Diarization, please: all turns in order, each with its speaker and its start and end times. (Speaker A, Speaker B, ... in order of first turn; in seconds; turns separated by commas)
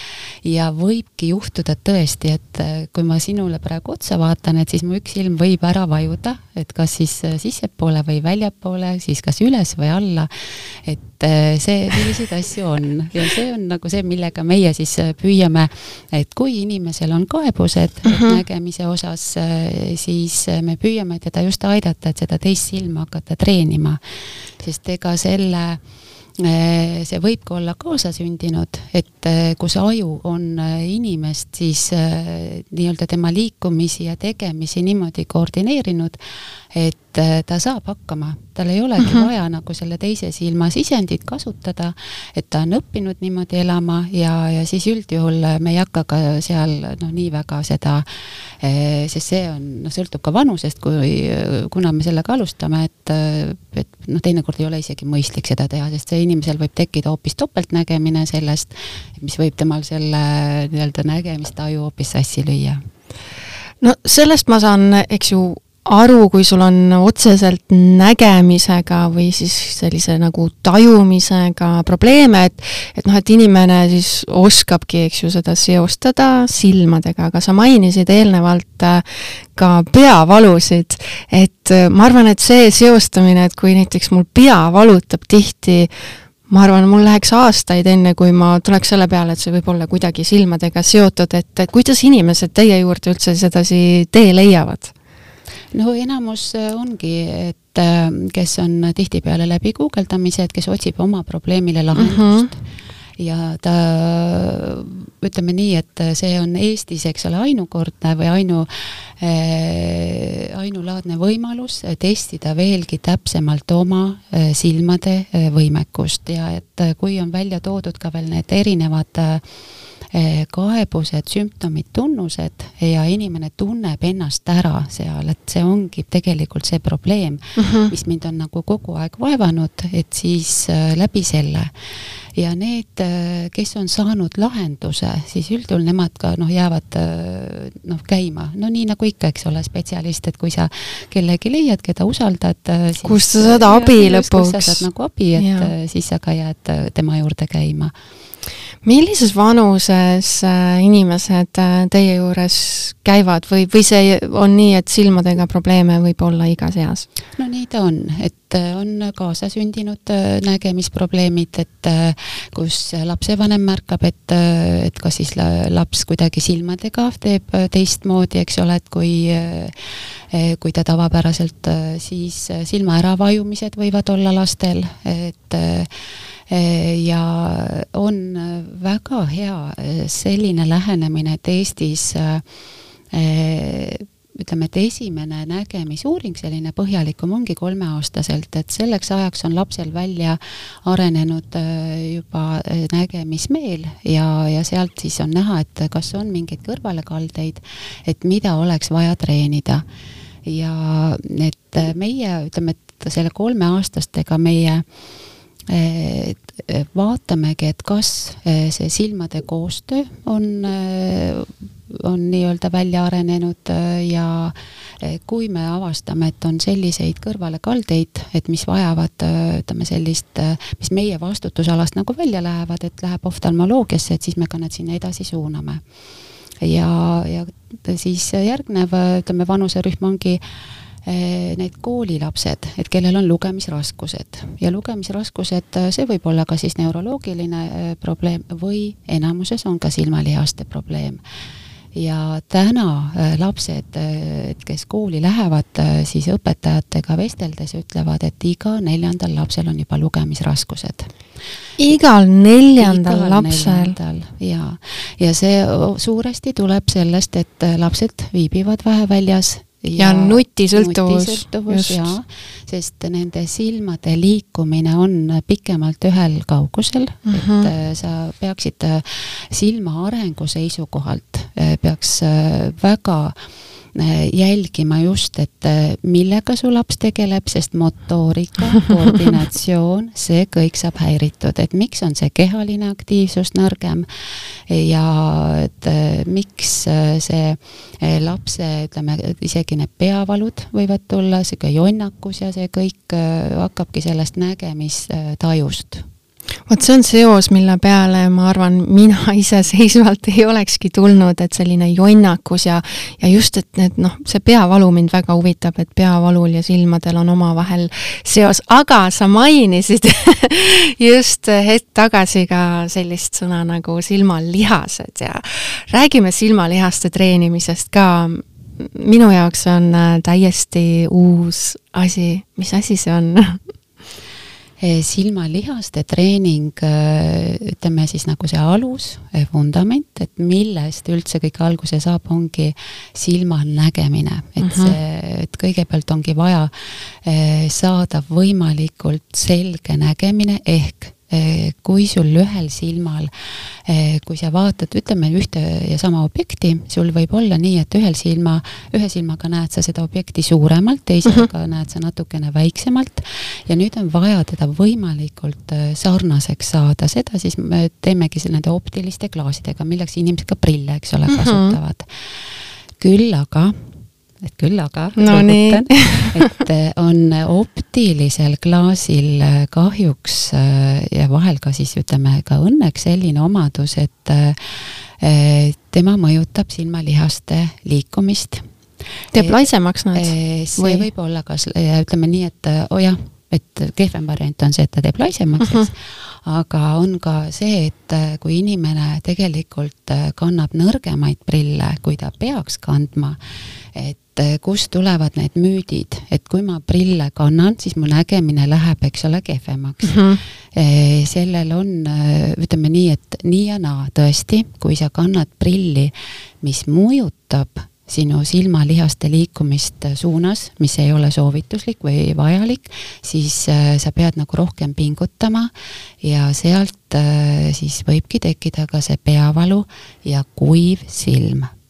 Speaker A: 0.4-24.0, Speaker B: 18.1-18.4, Speaker A: 24.6-25.8, Speaker A: 26.4-36.2, Speaker A: 36.7-48.0, Speaker A: 48.6-62.9, Speaker B: 63.8-85.9, Speaker B: 86.5-94.9, Speaker A: 95.7-102.6, Speaker B: 101.9-102.5, Speaker A: 103.2-119.4, Speaker A: 120.1-131.7, Speaker B: 127.5-127.9, Speaker A: 132.3-147.9, Speaker B: 143.0-144.8, Speaker B: 145.4-145.7, Speaker B: 148.8-157.1, Speaker A: 157.3-169.7, Speaker A: 170.3-175.9, Speaker A: 176.5-182.4, Speaker A: 183.1-199.8, Speaker A: 200.4-204.8, Speaker A: 205.7-225.8, Speaker A: 226.6-230.4, Speaker A: 231.0-241.2, Speaker A: 241.9-251.1, Speaker B: 251.8-253.9, Speaker A: 252.8-273.3, Speaker B: 260.0-262.1, Speaker B: 267.3-267.7, Speaker A: 273.9-296.1, Speaker B: 296.7-323.6, Speaker A: 324.8-362.1, Speaker B: 334.6-335.0, Speaker B: 361.3-361.8, Speaker A: 363.0-363.8, Speaker A: 364.4-378.7, Speaker B: 365.2-366.5, Speaker B: 379.3-381.1, Speaker A: 379.3-379.6, Speaker A: 380.1-393.4, Speaker B: 385.6-385.9, Speaker A: 393.9-400.2, Speaker B: 400.0-400.4, Speaker A: 400.7-421.7